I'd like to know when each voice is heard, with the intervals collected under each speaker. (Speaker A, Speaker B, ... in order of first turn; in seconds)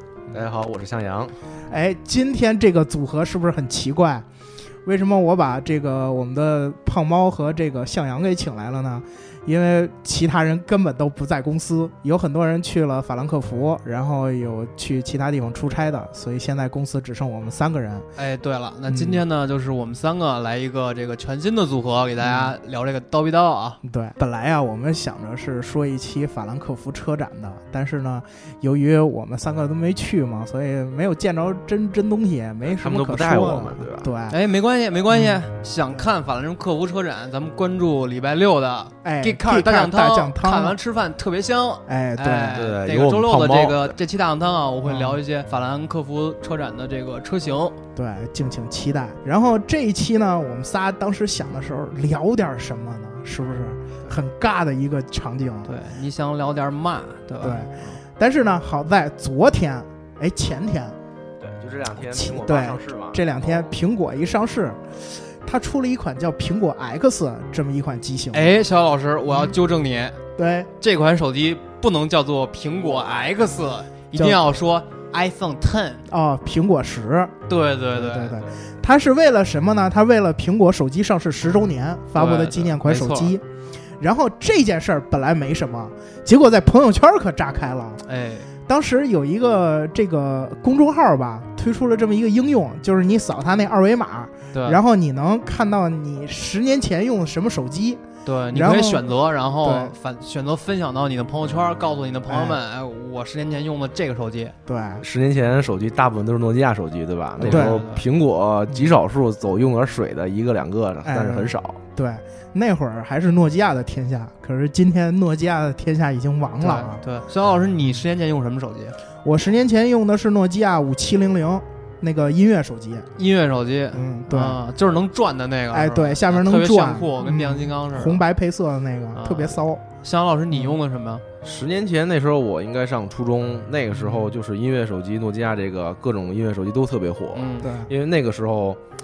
Speaker A: 0.3-1.4, 32.6-34.1, 42.5-44.0, 61.4-63.2, 105.0-111.8, 131.4-138.8
Speaker B: 1.7-4.3, 4.8-18.1, 18.9-19.2, 22.2-22.5, 23.8-34.4, 35.1-35.4, 39.0-40.8, 41.9-42.6, 44.9-45.2, 48.0-55.7, 57.4-61.0, 62.0-68.5, 69.3-69.5, 70.4-70.7, 74.2-74.4, 76.1-77.3, 77.9-83.5, 84.0-88.0, 88.7-99.1, 99.6-99.9, 102.3-102.6, 104.7-105.0, 107.4-107.8, 108.7-108.9, 111.0-117.0, 119.2-123.1, 123.9-124.6, 125.7-129.8, 130.5-130.8, 133.9-134.3, 137.6-137.9
Speaker C: 18.2-23.8, 34.3-47.8, 55.6-58.0, 68.3-70.2, 70.8-76.1, 77.5-78.5, 82.2-83.3, 88.0-88.5, 94.5-94.8, 98.2-104.5, 107.4-108.1, 116.6-119.0, 123.2-128.2, 129.1-131.2, 137.3-137.7